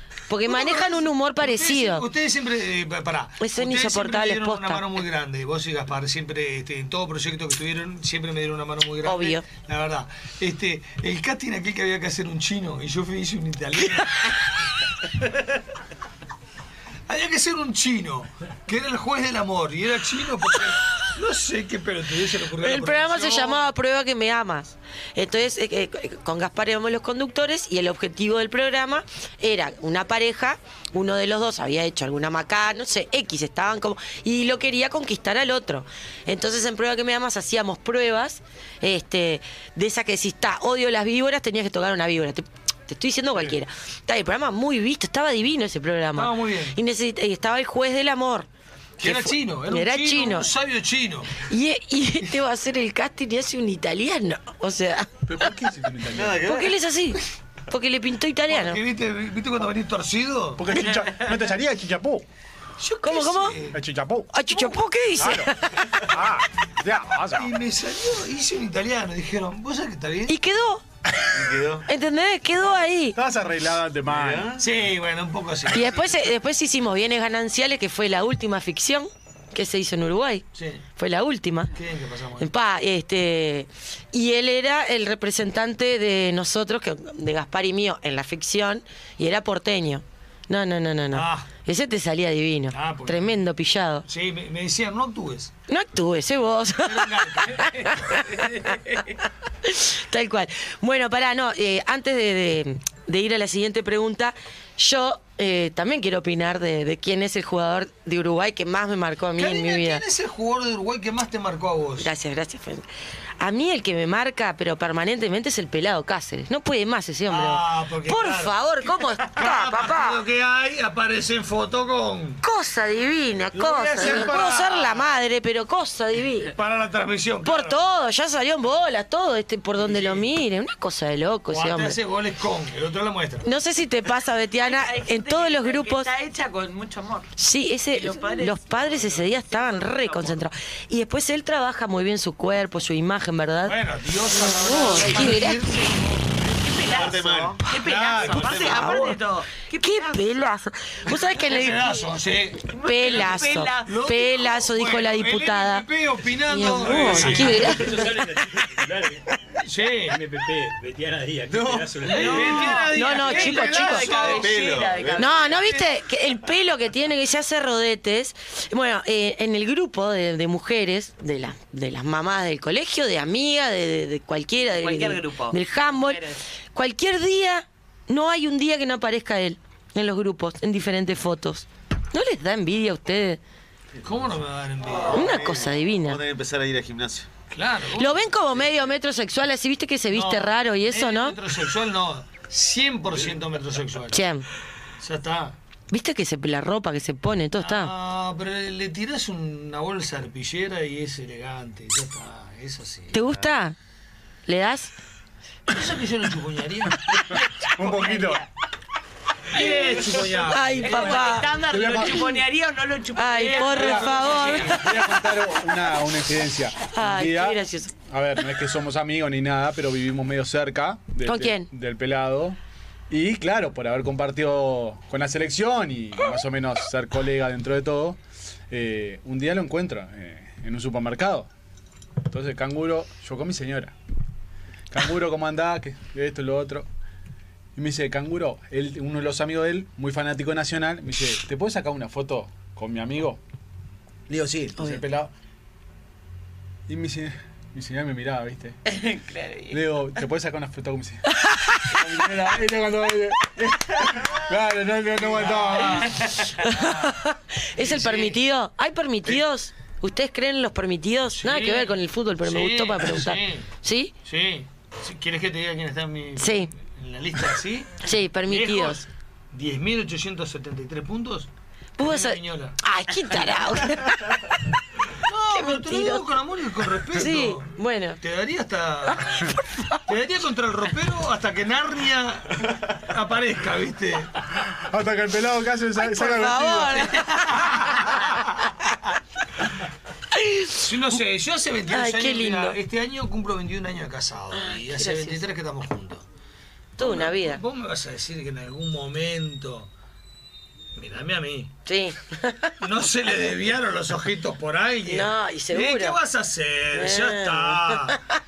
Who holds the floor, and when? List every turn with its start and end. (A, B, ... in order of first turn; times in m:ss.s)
0:00.3-0:02.0 A
0:00.4-0:14.4 B
0:03.4-0:04.8 A
0:09.0-0:09.4 A
0:17.1-0:23.7 B
0:22.6-0:48.5 A
0:46.2-0:46.8 B
0:49.0-0:51.5 B
0:49.0-0:50.5 A
0:51.4-0:55.1 A
0:55.2-0:56.4 C
0:56.1-0:56.8 D
0:56.4-0:58.8 A
0:58.5-1:00.7 B
1:00.6-1:02.2 C
1:02.8-1:03.8 B
1:03.0-1:03.6 A
1:03.7-1:04.4 C
1:04.3-1:05.9 A
1:05.2-1:07.5 C
1:07.3-1:10.3 B
1:10.3-1:10.8 A
1:11.3-1:11.9 D
1:11.9-1:13.2 A
1:13.1-1:14.5 C
1:14.1-1:14.7 D
1:14.6-1:16.1 B
1:15.7-1:20.4 A
1:20.5-1:20.8 B
1:21.0-1:21.7 A
1:21.7-1:22.5 B
1:22.4-1:34.0 A
1:31.1-1:31.5 B
1:32.7-1:33.4 B
1:34.0-1:35.5 B
1:35.7-1:38.8 A
1:36.8-1:37.7 B
1:39.6-1:50.0 A
1:49.4-1:52.1 B
1:52.0-1:52.8 A
1:53.4-2:00.2 A
1:57.3-2:02.4 B
2:02.4-2:06.5 A
2:03.5-2:05.1 B
2:06.5-2:07.8 B
2:07.4-2:12.0 A
2:09.8-2:10.3 B
2:11.5-2:13.5 B
2:13.4-2:16.1 A
2:14.6-2:17.3 E
2:17.4-2:23.8 A
2:17.9-2:20.4 E
2:23.6-2:27.1 B
2:24.4-2:25.6 A
2:26.6-2:30.3 E
2:26.8-2:29.1 D
2:27.7-2:29.0 B
2:28.7-2:29.1 A
2:29.8-2:32.0 A
2:31.4-2:32.6 B
2:32.7-2:34.1 E
2:32.8-2:35.8 A
2:33.8-2:37.8 B
2:36.5-2:38.4 A
2:37.2-2:39.2 F
2:39.6-2:40.2 B
2:40.1-2:42.6 F
2:41.5-2:42.8 D
2:42.0-2:44.5 B
2:42.2-2:44.2 A
2:42.2-2:45.7 E
2:44.2-2:45.6 D
2:45.2-2:56.2 A
2:54.7-2:56.4 E
2:56.7-3:03.4 A
3:03.9-3:04.4 D
3:04.0-3:05.3 B
3:05.0-3:07.3 D
3:05.1-3:06.2 A
3:07.5-3:08.2 B
3:08.0-3:11.4 A
3:10.1-3:14.2 B
3:14.1-3:14.4 A
3:15.0-3:15.6 B
3:15.9-3:17.9 A
3:17.6-3:23.2 B
3:23.1-3:23.8 A
3:24.4-3:24.9 A
3:25.7-3:27.1 B
3:27.3-3:28.4 E
3:27.7-3:28.4 C
3:29.5-3:31.5 B
3:29.5-3:34.8 E
3:30.5-3:31.5 A
3:31.7-3:32.2 C
3:32.0-3:32.4 A
3:33.2-3:34.8 A
3:33.8-3:34.7 B
3:34.7-3:42.6 C
3:36.9-3:37.9 A
3:41.2-3:41.7 A
3:43.1-3:48.2 C
3:48.7-3:51.5 C
3:52.3-3:53.9 C
3:54.9-3:56.9 C
3:57.8-4:03.4 C
4:04.3-4:05.3 C
4:04.8-4:05.0 A
4:06.9-4:08.8 C
4:08.9-4:09.8 E
4:09.7-4:11.2 C
4:11.4-4:11.9 A
4:11.8-4:16.1 C
4:15.2-4:16.2 B
4:16.5-4:24.1 A
4:16.8-4:17.1 B
4:17.8-4:18.4 B
4:21.3-4:23.7 B
4:24.2-4:31.5 B
4:26.4-4:26.7 A
4:28.0-4:29.0 A
4:32.0-4:34.4 A
4:32.0-4:32.8 B
4:35.2-4:44.4 B
4:35.5-4:36.2 A
4:37.1-4:38.2 A
4:44.6-4:47.1 C
4:46.0-4:47.7 A
4:47.1-4:48.3 B
4:50.4-4:50.8 A
4:50.8-4:56.2 B
4:51.9-4:52.8 A
4:54.5-4:55.4 A
4:57.0-4:57.6 A
4:57.0-4:59.9 B
5:00.9-5:01.7 B
5:01.8-5:02.7 A
5:02.8-5:08.2 B
5:05.1-5:06.2 A
5:06.9-5:08.2 A